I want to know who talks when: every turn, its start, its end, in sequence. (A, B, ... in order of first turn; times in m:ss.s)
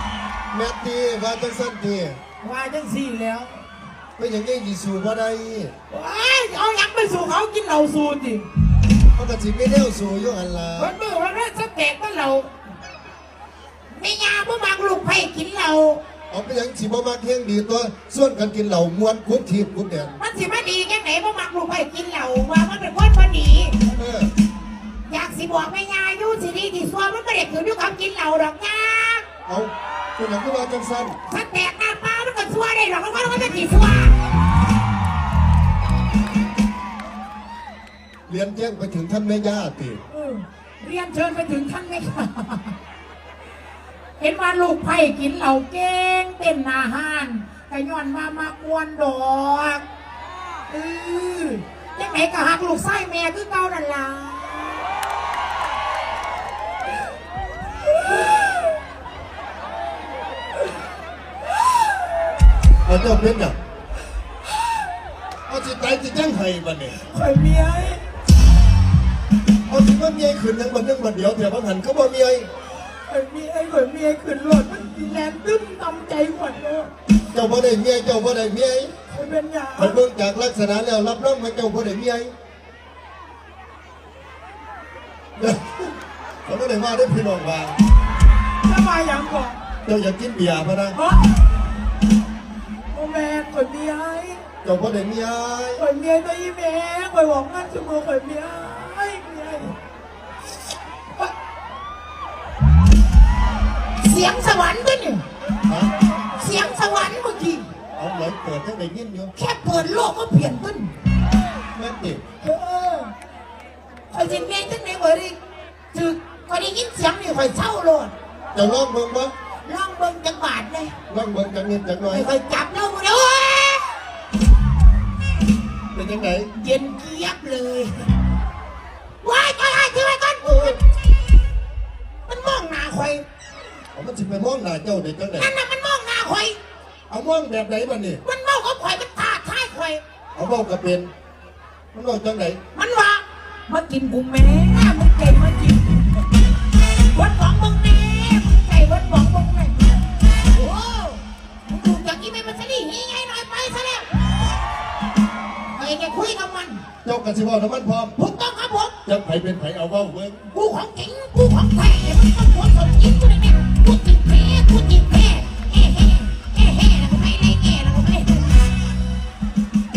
0:00.5-0:02.2 A
0:02.4-0:03.7 B
0:04.2-0:05.7 A
0:05.9-0:08.5 B
0:09.1-0:11.0 A
0:10.8-0:12.5 B
0:13.9-0:16.0 B
0:16.3-0:20.2 A
0:20.2-0:23.8 B
0:23.9-0:24.3 A
0:25.1-0:29.2 B
0:29.5-0:31.2 A
0:31.3-0:34.4 B
0:38.3-0:40.0 A
0:40.1-0:42.8 B
0:44.2-0:49.8 B
0:50.7-0:54.9 B
1:02.8-1:03.6 A
1:05.5-1:07.0 A
1:07.0-1:08.0 B
1:09.7-1:12.5 A
1:13.1-1:16.9 B
1:17.3-1:18.9 A
1:19.1-1:20.0 B
1:19.8-1:22.3 A
1:25.4-1:25.9 A
1:26.4-1:27.8 A
1:28.6-1:29.6 B
1:29.8-1:31.0 A
1:30.9-1:31.4 B
1:32.9-1:34.4 B
1:34.6-1:35.8 A
1:35.8-1:39.8 B
1:44.0-1:45.2 B
1:45.7-1:45.9 A
1:46.4-1:47.7 B
1:48.0-1:49.3 A
1:49.4-1:50.9 B
1:51.8-1:52.2 A
1:52.4-1:53.1 B
1:54.1-1:55.4 B
1:55.9-1:58.1 B
1:58.6-1:59.3 A
1:59.7-2:00.9 B
2:01.1-2:02.3 A
2:02.1-2:04.0 B
2:05.9-2:06.5 A
2:06.5-2:07.9 B
2:09.2-2:10.8 B
2:10.5-2:10.8 A
2:12.3-2:13.2 B
2:13.9-2:15.5 A
2:15.4-2:16.6 B
2:17.1-2:18.2 A
2:18.2-2:20.0 B
2:20.4-2:21.1 A
2:21.9-2:22.6 A
2:22.7-2:26.3 B
2:27.0-2:34.1 B
2:35.8-2:36.8 B
2:37.0-2:38.2 A
2:38.2-2:39.0 B
2:39.0-2:40.5 A
2:40.5-2:48.8 B